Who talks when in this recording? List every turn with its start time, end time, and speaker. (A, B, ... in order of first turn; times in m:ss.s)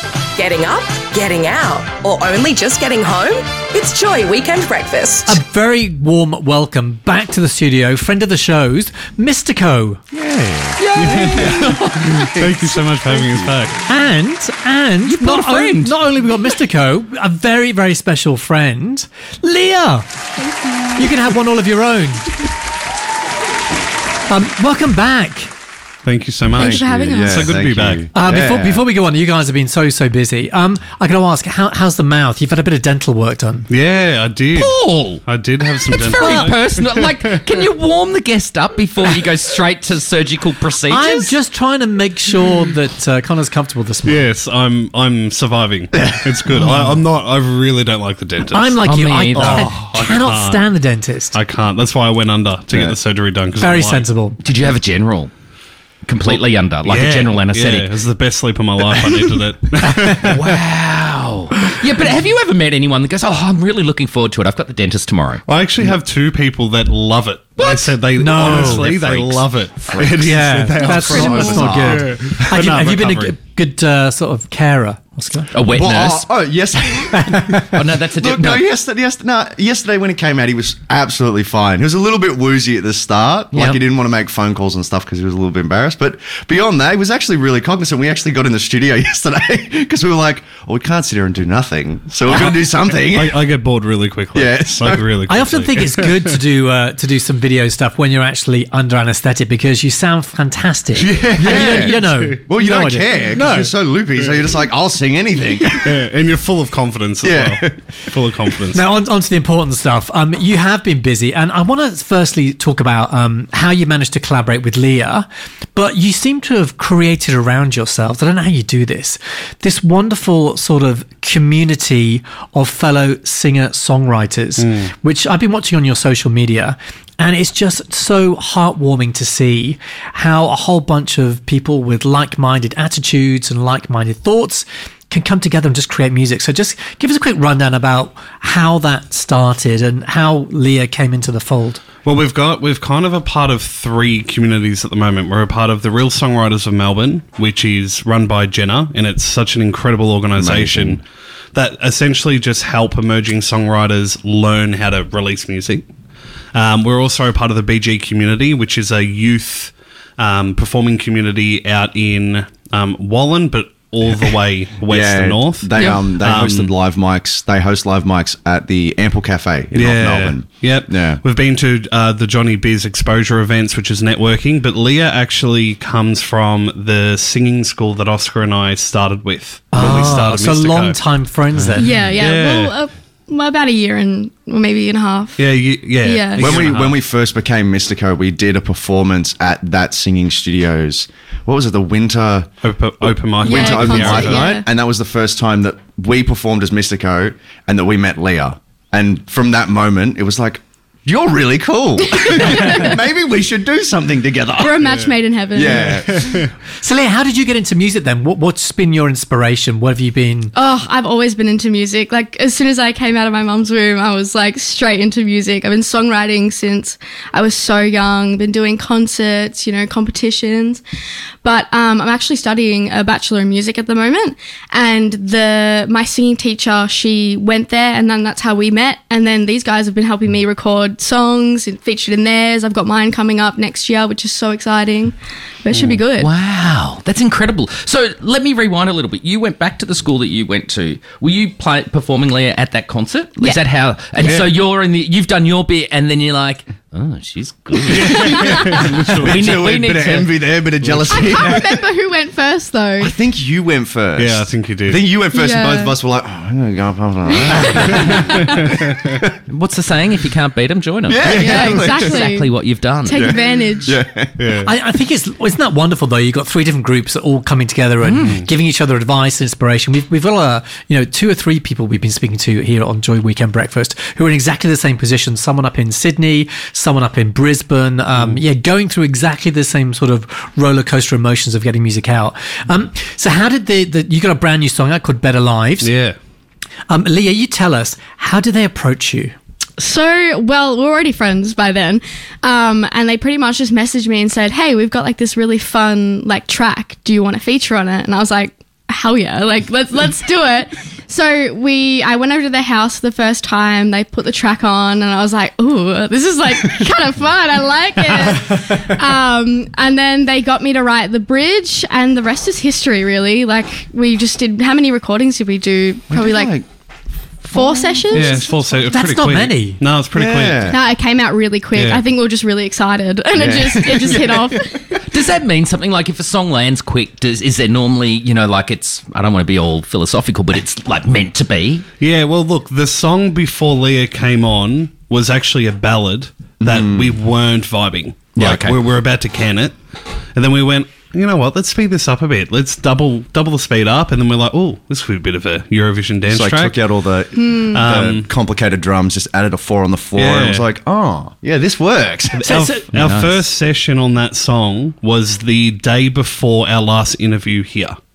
0:00.4-0:05.4 A
0:05.2-0:10.0 B
0:10.1-0:12.3 C
0:11.0-0:13.8 D
0:13.8-0:20.0 B
0:15.0-0:16.0 C
0:20.4-0:21.0 E
0:20.9-0:22.4 B
0:24.3-0:25.5 B
0:26.0-0:28.0 D
0:26.5-0:27.5 E
0:26.5-0:28.8 F
0:28.1-0:33.7 B
0:33.7-0:36.7 D
0:34.5-0:41.3 C
0:36.2-0:36.6 B
0:40.9-0:44.2 B
0:44.0-0:48.8 D
0:46.1-0:46.9 F
0:48.5-0:51.4 B
0:48.8-0:49.7 C
0:49.3-0:50.6 D
0:51.3-0:54.1 D
0:53.6-0:54.4 B
0:54.4-0:55.3 C
0:56.0-0:58.0 C
0:56.2-1:00.5 D
1:00.2-1:05.4 C
1:05.4-1:13.4 D
1:07.6-1:10.3 C
1:08.2-1:08.9 B
1:10.2-1:15.5 B
1:10.8-1:12.3 F
1:15.5-1:16.3 C
1:15.7-1:33.4 F
1:17.3-1:17.6 B
1:17.7-1:18.6 C
1:23.5-1:23.8 C
1:32.3-1:32.6 D
1:33.1-1:36.3 D
1:34.3-1:35.0 F
1:35.3-1:43.7 B
1:41.0-1:46.0 F
1:41.4-1:42.0 D
1:45.8-1:48.8 D
1:47.2-1:47.8 F
1:48.7-2:21.8 B
2:04.6-2:04.9 D
2:22.0-2:31.0 D
2:30.4-2:31.0 F
2:31.5-2:35.8 D
2:36.5-2:46.7 D
2:44.9-2:51.2 F
2:45.8-2:46.0 C
2:49.7-3:01.0 D
2:59.7-3:01.9 B
3:01.6-3:02.8 D
3:01.7-3:06.6 E
3:05.4-3:07.0 D
3:06.4-3:12.5 F
3:12.6-3:14.4 D
3:13.0-3:24.9 F
3:13.4-3:14.7 E
3:22.1-3:23.0 E
3:24.6-3:26.0 E
3:25.5-3:26.4 F
3:25.8-3:26.4 D
3:26.8-3:30.5 B
3:30.5-3:40.8 E
3:41.4-3:56.3 E
3:55.7-3:56.0 D
3:56.2-4:10.3 C
4:04.2-4:04.5 D
4:07.9-4:09.4 D
4:08.0-4:08.8 E
4:09.2-4:11.8 F
4:11.0-4:13.1 E
4:13.0-4:18.7 F
4:14.2-4:15.0 D
4:15.3-4:15.9 E
4:17.3-4:18.5 E
4:17.6-4:19.0 D
4:19.5-4:23.3 C
4:21.1-4:22.2 F
4:21.2-4:23.9 E
4:23.1-4:24.3 F
4:24.4-4:24.7 D
4:24.6-4:45.9 B
4:28.0-4:28.4 C
4:45.8-4:46.2 D
4:46.9-4:49.3 B
4:49.8-5:16.6 E
5:16.1-5:16.6 F
5:17.5-5:18.5 E
5:17.5-5:18.4 F
5:18.1-5:20.7 D
5:18.8-5:19.8 B
5:20.1-5:20.8 F
5:20.7-5:25.0 E
5:21.7-5:22.0 D
5:23.3-5:24.6 F
5:25.1-5:31.8 C
5:32.0-5:39.7 D
5:36.6-5:37.2 F
5:38.3-5:38.8 C
5:40.3-5:46.8 D
5:46.3-5:52.5 F
5:47.3-5:47.8 E
5:47.7-5:48.3 D
5:50.2-5:50.6 D
5:52.4-5:52.9 B
5:52.4-5:58.0 D
5:52.9-5:53.5 C